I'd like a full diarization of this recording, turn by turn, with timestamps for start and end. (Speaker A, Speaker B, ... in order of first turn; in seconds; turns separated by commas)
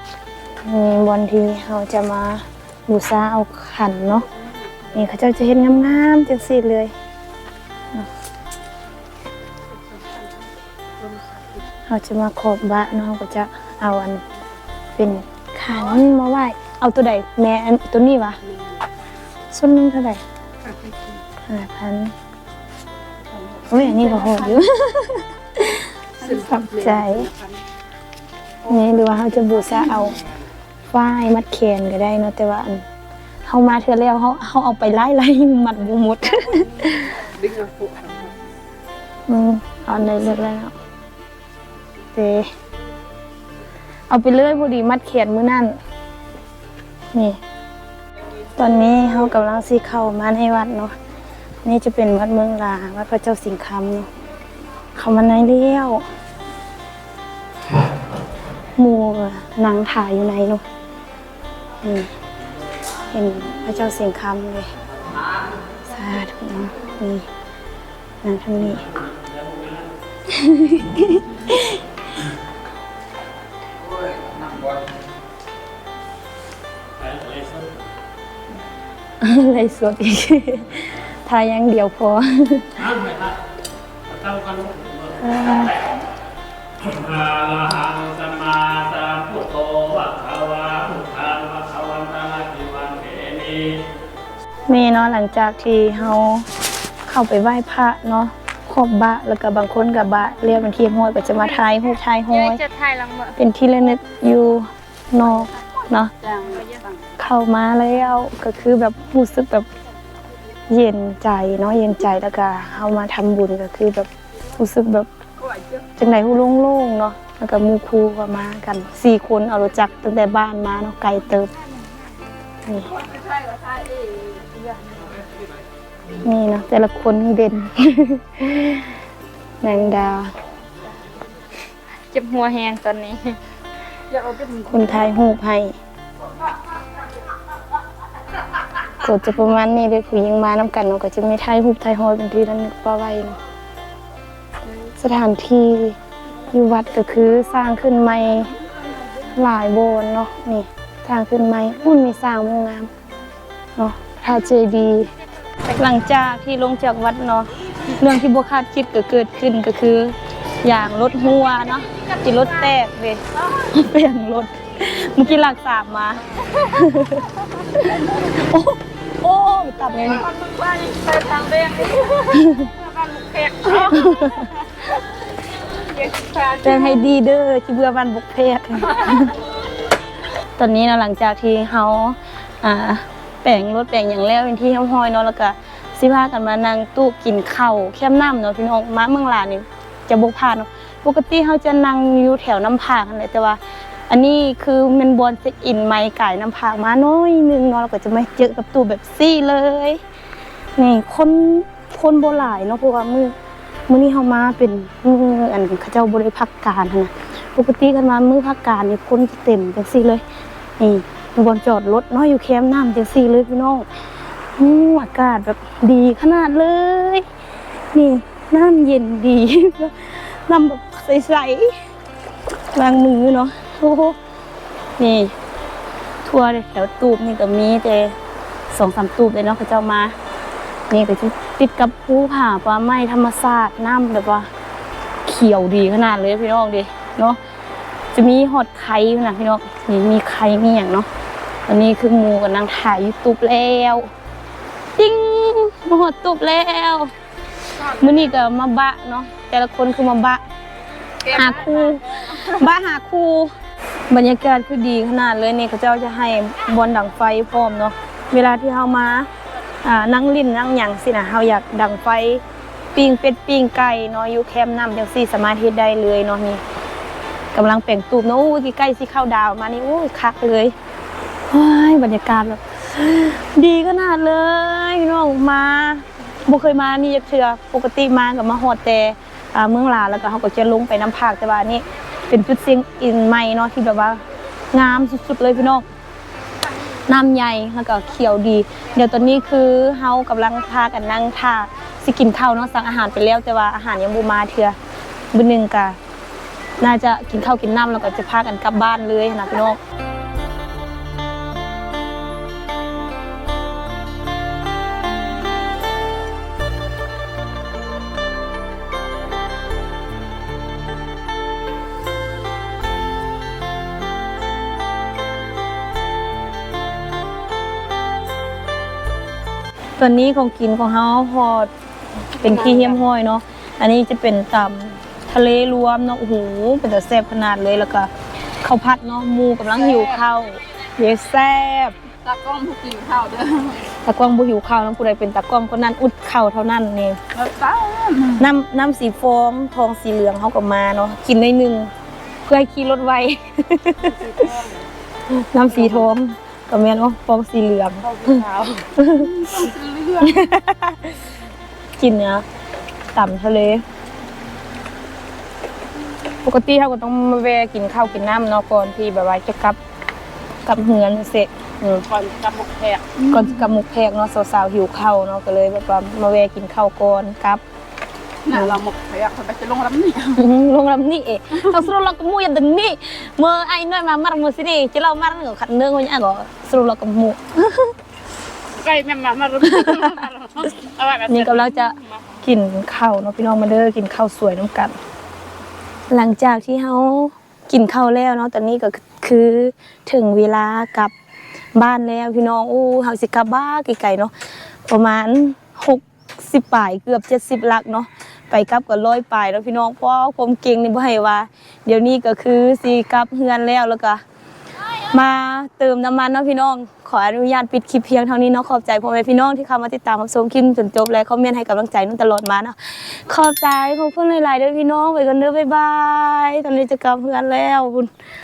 Speaker A: 0.6-4.3, Speaker A: 4.9-6.9, Speaker B: 9.9-10.5, Speaker B: 11.0-11.6, Speaker A: 11.9-14.2, Speaker A: 15.0-18.4, Speaker A: 19.5-20.2, Speaker B: 20.6-21.2, Speaker A: 21.4-22.1, Speaker B: 23.4-24.7, Speaker A: 23.7-27.3, Speaker B: 26.2-27.6, Speaker A: 28.7-30.2, Speaker B: 28.7-30.4, Speaker A: 30.9-32.8, Speaker A: 33.5-37.2, Speaker B: 36.3-38.4, Speaker A: 39.3-40.7, Speaker A: 42.1-42.5, Speaker A: 44.1-45.8, Speaker A: 47.1-47.4, Speaker A: 48.5-50.9, Speaker A: 51.6-54.1, Speaker A: 54.9-56.0, Speaker A: 58.8-60.6, Speaker A: 61.8-62.1, Speaker A: 63.1-64.7, Speaker A: 65.8-67.3, Speaker A: 68.2-69.0, Speaker C: 69.3-69.8, Speaker A: 70.3-71.8, Speaker C: 77.0-77.7, Speaker A: 79.2-83.3, Speaker C: 84.1-85.0, Speaker A: 85.1-85.9, Speaker C: 86.9-93.8, Speaker A: 94.7-96.5, Speaker A: 97.0-106.1, Speaker B: 102.8-103.2, Speaker B: 105.4-107.0, Speaker A: 107.2-109.7, Speaker A: 110.7-115.1, Speaker B: 115.4-115.9, Speaker A: 116.0-121.5, Speaker A: 122.6-122.9, Speaker B: 122.9-125.2, Speaker A: 126.2-129.0, Speaker A: 129.6-130.3, Speaker A: 132.1-133.4, Speaker B: 134.1-135.1, Speaker A: 134.7-135.8, Speaker A: 139.0-143.4, Speaker A: 144.9-146.0, Speaker A: 146.5-148.5, Speaker A: 149.3-152.9, Speaker A: 153.8-155.1, Speaker A: 155.7-170.3, Speaker B: 170.0-177.1, Speaker A: 172.3-172.7, Speaker A: 173.8-174.5, Speaker A: 176.6-179.4, Speaker A: 180.6-193.6, Speaker A: 194.1-200.0, Speaker A: 200.8-203.3, Speaker A: 203.9-210.2, Speaker A: 210.8-213.9, Speaker A: 214.6-217.2, Speaker A: 217.9-221.7, Speaker A: 222.7-224.2, Speaker A: 225.0-225.3, Speaker A: 226.2-228.1, Speaker A: 228.7-230.2, Speaker A: 230.9-234.5, Speaker A: 235.2-237.4, Speaker A: 238.1-241.1, Speaker A: 241.7-244.1, Speaker A: 245.0-247.1, Speaker B: 247.8-248.2, Speaker A: 247.8-250.4, Speaker B: 251.2-252.6, Speaker A: 251.2-253.5, Speaker A: 254.1-259.3, Speaker A: 259.8-266.6, Speaker A: 267.5-270.7, Speaker A: 271.5-285.9, Speaker A: 287.0-294.8, Speaker A: 295.3-296.0, Speaker A: 296.8-299.8, Speaker A: 320.0-321.7, Speaker A: 322.4-328.1, Speaker B: 322.4-323.0, Speaker A: 328.6-331.9, Speaker B: 329.9-330.2, Speaker B: 332.2-333.9, Speaker A: 333.9-337.2, Speaker B: 337.3-338.5, Speaker A: 338.4-341.9, Speaker A: 342.4-344.2, Speaker B: 344.0-344.9, Speaker A: 345.3-348.4, Speaker B: 345.7-346.1, Speaker B: 348.0-350.5, Speaker A: 348.9-349.7, Speaker A: 350.2-351.2, Speaker A: 352.0-352.4, Speaker A: 353.1-353.8, Speaker A: 356.4-359.8, Speaker A: 360.6-362.1, Speaker B: 362.1-363.4, Speaker A: 363.2-367.6, Speaker B: 368.4-370.4, Speaker A: 368.5-368.8, Speaker A: 370.3-377.9, Speaker B: 378.7-382.1, Speaker A: 379.6-380.2, Speaker A: 381.3-384.9, Speaker A: 386.1-391.1, Speaker A: 391.7-394.3, Speaker A: 394.9-404.2, Speaker A: 405.0-418.1